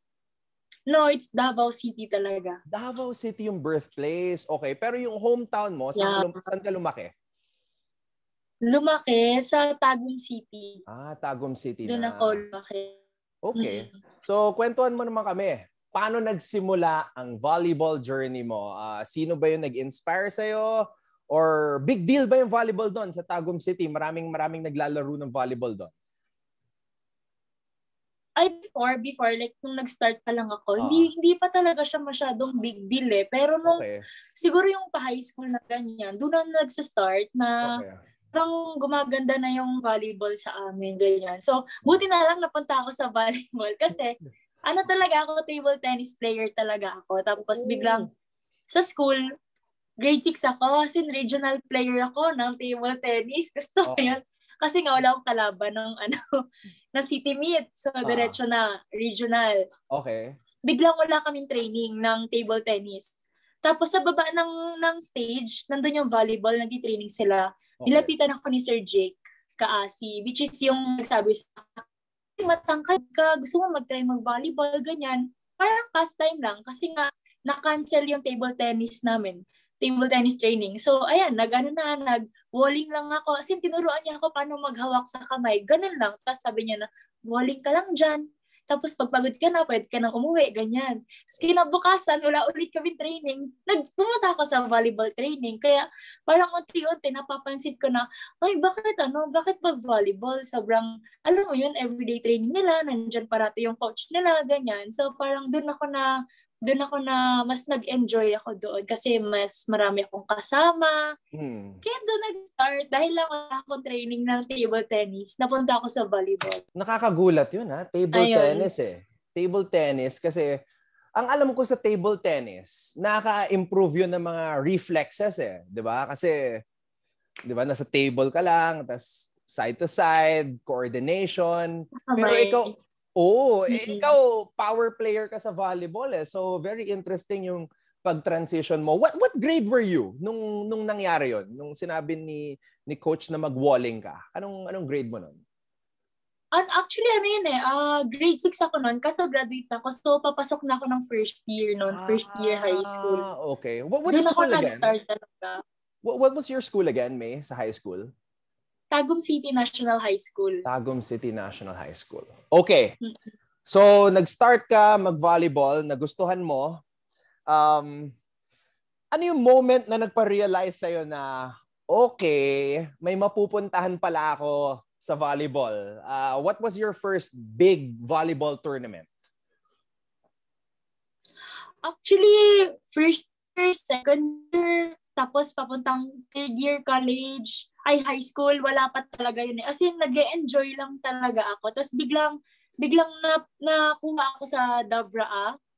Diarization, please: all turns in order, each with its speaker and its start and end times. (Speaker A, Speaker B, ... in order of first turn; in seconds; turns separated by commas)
Speaker A: 0.9-2.6, Speaker B: 2.7-7.1, Speaker A: 6.0-6.3, Speaker A: 8.7-10.8, Speaker B: 10.9-12.4, Speaker A: 11.9-13.0, Speaker B: 13.4-25.9, Speaker A: 13.6-13.9, Speaker A: 28.4-33.8, Speaker B: 30.8-31.1, Speaker B: 33.6-34.0, Speaker A: 34.4-37.8, Speaker B: 37.6-38.0, Speaker A: 38.3-48.1, Speaker B: 47.5-48.0, Speaker A: 48.7-49.2, Speaker A: 50.0-56.2, Speaker B: 53.9-54.2, Speaker A: 56.9-59.6, Speaker B: 58.0-58.4, Speaker B: 59.9-60.3, Speaker A: 60.6-63.1, Speaker A: 63.6-71.8, Speaker B: 67.8-68.1, Speaker A: 72.4-106.1, Speaker A: 106.7-111.0, Speaker B: 111.3-111.8, Speaker A: 111.8-116.6, Speaker B: 116.8-120.5, Speaker A: 118.1-118.7, Speaker B: 121.2-126.4, Speaker B: 127.5-145.4, Speaker A: 132.1-132.8, Speaker A: 133.7-134.1, Speaker A: 146.5-153.2, Speaker B: 151.9-154.9, Speaker A: 154.1-155.6, Speaker B: 156.0-158.1, Speaker A: 158.9-160.6, Speaker B: 160.6-162.9, Speaker A: 163.0-163.3, Speaker B: 163.7-166.8, Speaker B: 167.5-168.1, Speaker B: 169.1-179.1, Speaker A: 181.8-195.5